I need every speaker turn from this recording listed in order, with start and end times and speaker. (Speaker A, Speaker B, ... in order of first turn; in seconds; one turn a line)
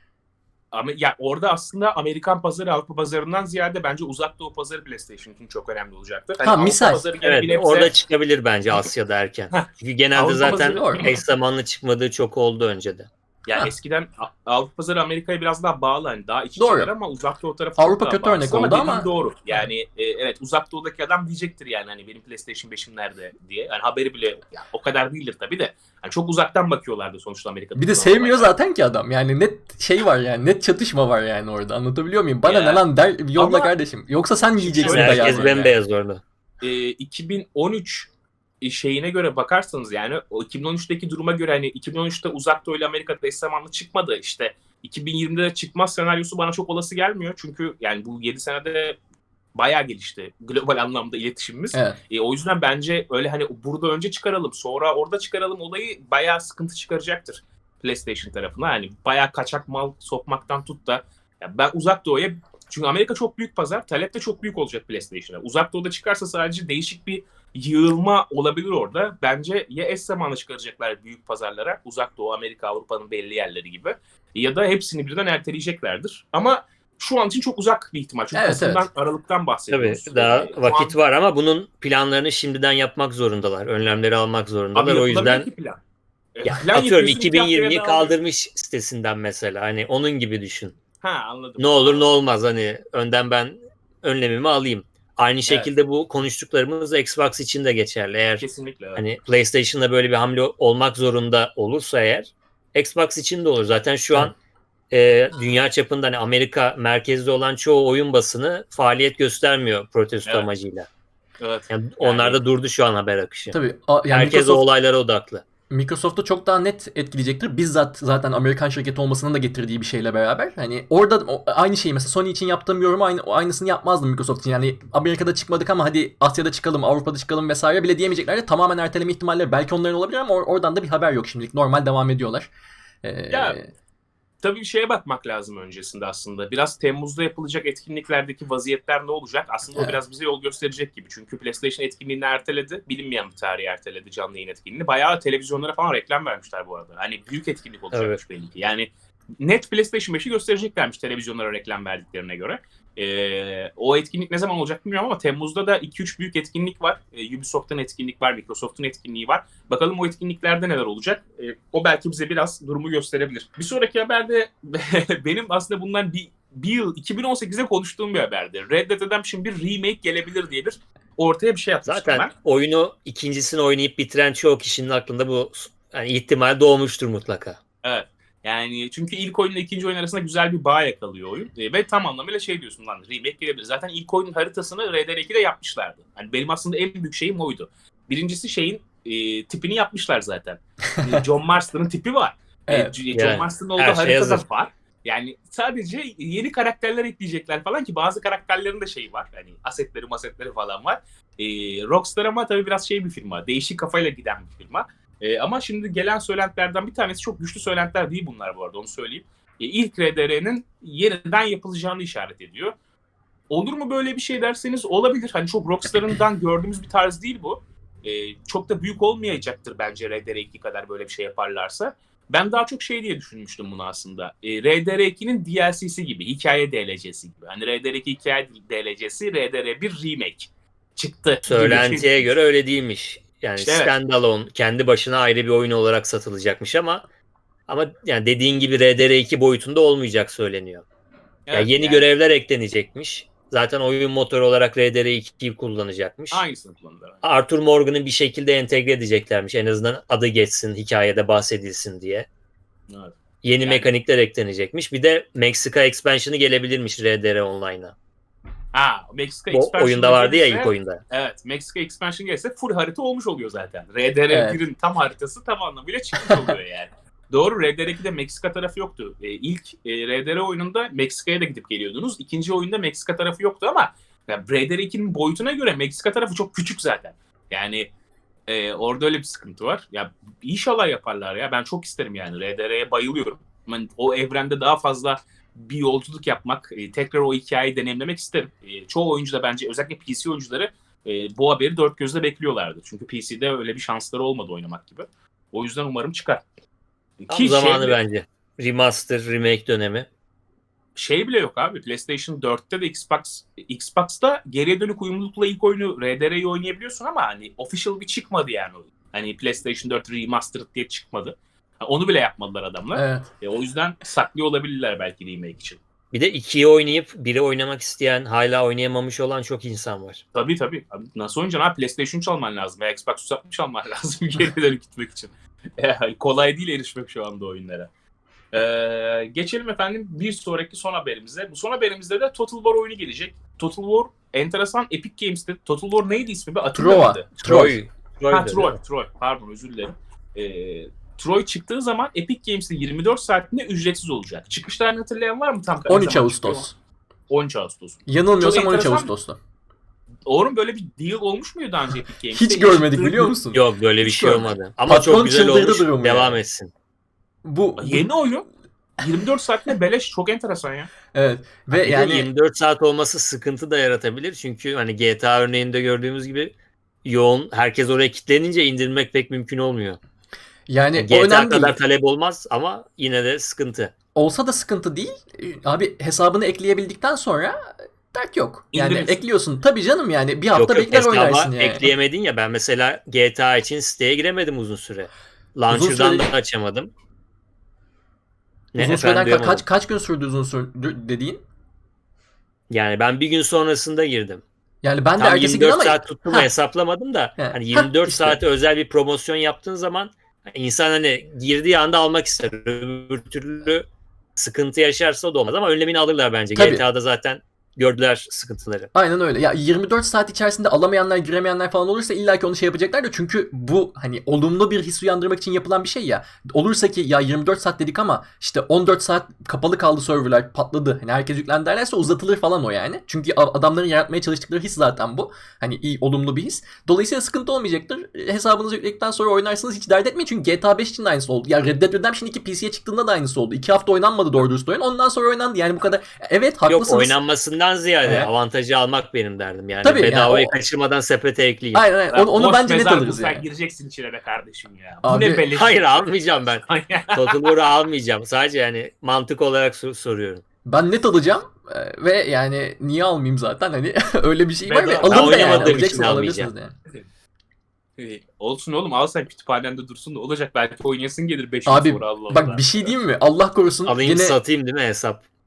Speaker A: 0.7-7.9
Speaker B: 6.4-7.1
Speaker C: 7.2-13.1
Speaker A: 9.5-11.0
Speaker B: 10.4-11.1
Speaker A: 13.4-28.5
Speaker B: 16.6-16.9
Speaker B: 17.8-19.6
Speaker B: 27.7-35.7
Speaker A: 32.4-32.8
Speaker A: 33.3-33.7
Speaker A: 34.5-35.7
Speaker C: 34.8-36.2
Speaker A: 36.6-38.1
Speaker A: 38.6-49.0
Speaker A: 49.5-81.0
Speaker B: 51.7-52.0
Speaker B: 78.3-78.9
Speaker C: 79.7-85.5
Speaker A: 84.7-85.8
Speaker A: 86.3-88.2
Speaker C: 86.4-90.8
Speaker A: 91.0-92.1
Speaker C: 91.6-104.3
Speaker A: 95.5-95.7
Speaker A: 98.4-99.0
Speaker C: 104.9-110.9
Speaker A: 111.4-112.4
Speaker C: 111.7-113.6
Speaker B: 113.5-114.7
Speaker C: 114.1-115.4
Speaker B: 115.7-132.5
Speaker B: 133.0-133.7
Speaker A: 133.3-133.6
Speaker A: 134.4-172.3
Speaker C: 147.9-148.2
Speaker C: 171.8-177.6
Speaker A: 177.8-212.7
Speaker B: 192.7-192.9
Speaker C: 193.1-194.4
Speaker A: 213.5-232.3
Speaker C: 231.4-237.0
Speaker A: 233.6-233.9
Speaker C: 237.7-240.8
Speaker A: 241.5-242.1
Speaker C: 241.5-246.4
Speaker A: 246.3-247.2
Speaker C: 247.2-252.3
Speaker A: 252.9-253.9
Speaker C: 253.4-257.9
Speaker A: 258.7-277.9
Speaker C: 259.5-261.0
Speaker B: 264.3-264.6
Speaker A: 278.5-296.4
Speaker A: 297.2-298.0
Speaker C: 297.3-300.1
Speaker A: 300.9-315.8
Speaker B: 312.9-313.3
Speaker C: 316.1-320.2
Speaker A: 320.3-327.9
Speaker A: 328.5-337.3
Speaker B: 336.7-337.8
Speaker C: 337.4-338.8
Speaker A: 338.3-346.7
Speaker B: 345.9-346.7
Speaker A: 347.3-349.1
Speaker B: 348.1-349.4
Speaker A: 350.3-353.3
Speaker B: 352.3-353.6
Speaker C: 353.5-356.7
Speaker A: 354.0-354.5
Speaker B: 354.8-356.4
Speaker B: 357.4-358.1
Speaker A: 357.8-358.4
Speaker A: 359.0-360.9
Speaker B: 361.1-362.3
Speaker C: 361.7-366.5
Speaker C: 367.0-370.0
Speaker B: 370.7-371.8
Speaker C: 370.9-373.9
Speaker B: 374.1-381.9
Speaker A: 378.7-379.2
Speaker C: 380.5-386.9
Speaker B: 385.7-386.3
Speaker C: 388.7-389.6
Speaker B: 388.8-391.4
Speaker C: 392.7-394.4
Speaker B: 394.8-396.5
Speaker C: 395.2-403.9
Speaker B: 397.4-398.4
Speaker C: 404.4-408.9
Speaker B: 406.5-406.8
Speaker B: 408.9-437.2
Speaker C: 436.6-441.9
Speaker B: 438.0-438.3
Speaker B: 439.8-440.5
Speaker B: 441.7-443.4
Speaker A: 442.1-446.1
Speaker B: 445.0-445.4
Speaker C: 445.5-450.4
Speaker A: 446.6-447.4
Speaker B: 450.6-456.7
Speaker A: 454.6-456.0
Speaker C: 455.0-456.5
Speaker A: 458.0-462.9
Speaker B: 461.6-464.4
Speaker C: 463.9-465.2